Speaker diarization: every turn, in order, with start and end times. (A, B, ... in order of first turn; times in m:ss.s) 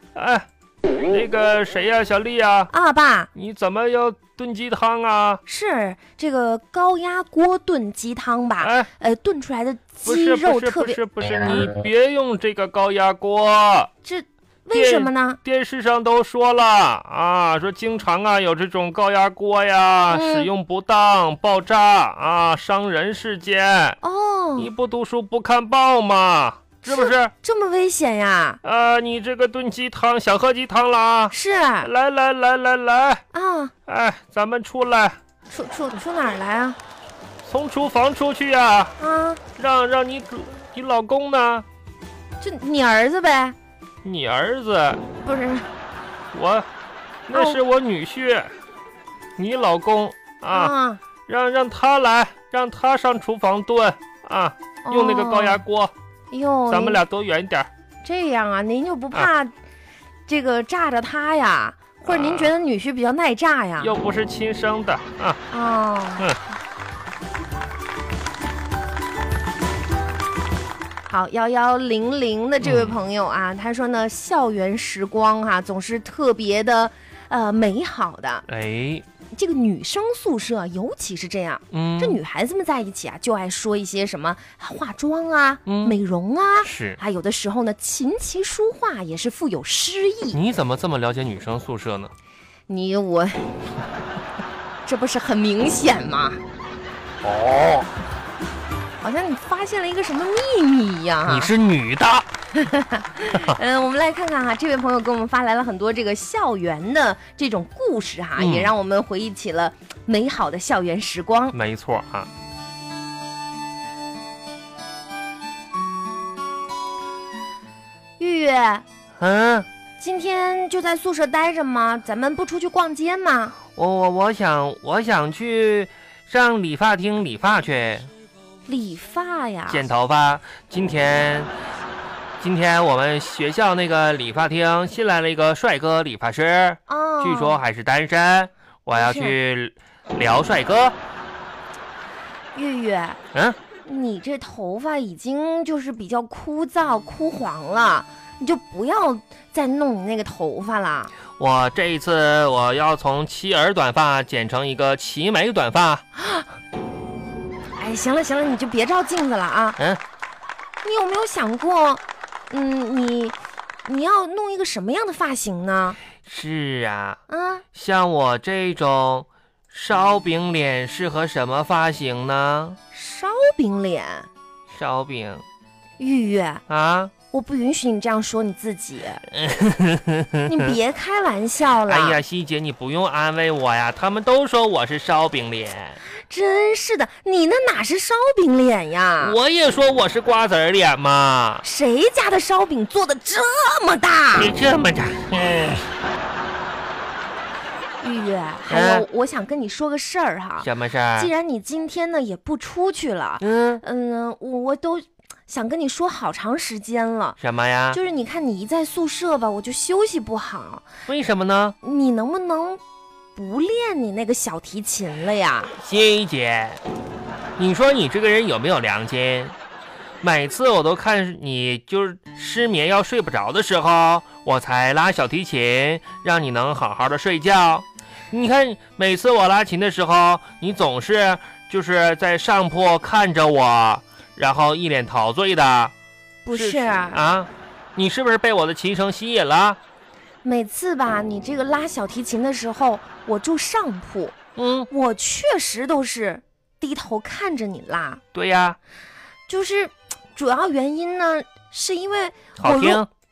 0:00.1-0:00.5 A
0:01.1-0:02.7 A
0:02.7-0:03.3 B
0:03.3-0:05.4 A
0:05.4-0:11.6 B
0:08.6-0:08.9 A
0:10.0-0:13.9 A
0:14.0-0:15.4 B
0:14.7-0:24.0 A
0:20.1-0:20.5 B
0:24.0-0:24.7 B
0:24.6-0:27.3 A
0:26.8-0:28.6 B
0:28.6-0:33.2 A
0:31.3-0:31.9 B
0:33.3-0:33.7 B
0:33.9-0:35.2 A
0:35.5-0:36.8 B
0:37.4-0:39.0 A
0:39.0-0:39.4 B
0:39.6-0:41.6 A
0:42.4-0:43.6 B
0:44.0-0:45.0 A
0:45.2-0:45.7 B
0:46.3-0:46.7 A
0:47.3-0:48.5 A
0:47.3-0:47.6 B
0:49.4-0:50.7 A
0:50.5-0:51.0 B
0:51.3-0:55.9 A
0:54.8-0:55.6 B
0:56.3-0:57.0 B
0:56.7-0:57.7 A
0:58.0-0:59.5 B
1:00.3-1:03.9 B
1:02.0-1:02.5 A
1:03.8-1:05.4 A
1:05.5-1:06.3 B
1:11.1-1:18.4 B
1:12.6-1:13.0 A
1:18.5-1:19.0 A
1:19.3-1:30.4 B
1:21.7-1:22.2 A
1:25.6-1:26.0 A
1:26.6-1:27.0 A
1:30.3-1:32.1 A
1:32.7-1:33.6 B
1:34.8-1:36.4 B
1:37.2-1:37.9 A
1:39.0-1:41.5 B
1:41.2-1:42.3 A
1:42.5-1:51.6 B
1:48.4-1:48.7 A
1:51.5-1:52.3 A
1:58.2-1:58.8 B
1:59.2-1:59.7 A
2:00.0-2:03.6 B
2:03.8-2:08.1 A
2:08.6-2:09.9 B
2:09.7-2:11.5 A
2:12.4-2:21.0 A
2:16.9-2:17.6 B
2:18.9-2:19.4 B
2:22.5-2:23.2 B
2:23.8-2:31.1 B
2:31.4-2:36.0 A
2:36.2-2:36.5 B
2:37.8-2:39.8 B
2:40.8-2:46.0 B
2:46.2-2:47.2 A
2:47.3-2:47.6 B
2:47.7-2:52.8 A
2:52.9-2:54.3 B
2:54.7-2:55.4 A
2:56.0-2:56.6 B
2:56.7-2:57.1 A
2:57.3-2:59.2 B
2:59.3-3:00.8 A
3:00.5-3:02.2 B
3:01.8-3:06.0 A
3:06.1-3:09.4 B
3:09.2-3:11.6 A
3:11.6-3:14.5 B
3:14.4-3:15.9 A
3:18.0-3:27.4 B
3:18.7-3:19.0 A
3:20.6-3:21.3 A
3:23.4-3:23.8 A
3:27.4-3:28.0 A
3:27.9-3:30.8 B
3:31.1-3:31.8 A
3:31.8-3:32.8 B
3:33.3-3:35.7 B
3:35.8-3:36.8 A
3:37.6-3:39.5 A
3:40.2-3:55.9 A
3:56.4-3:57.2 B
3:56.5-3:59.8 A
4:00.4-4:04.4 B
4:04.6-4:04.9 A
4:04.9-4:08.2 B
4:08.3-4:08.8 A
4:09.5-4:13.0 B
4:12.6-4:13.1 A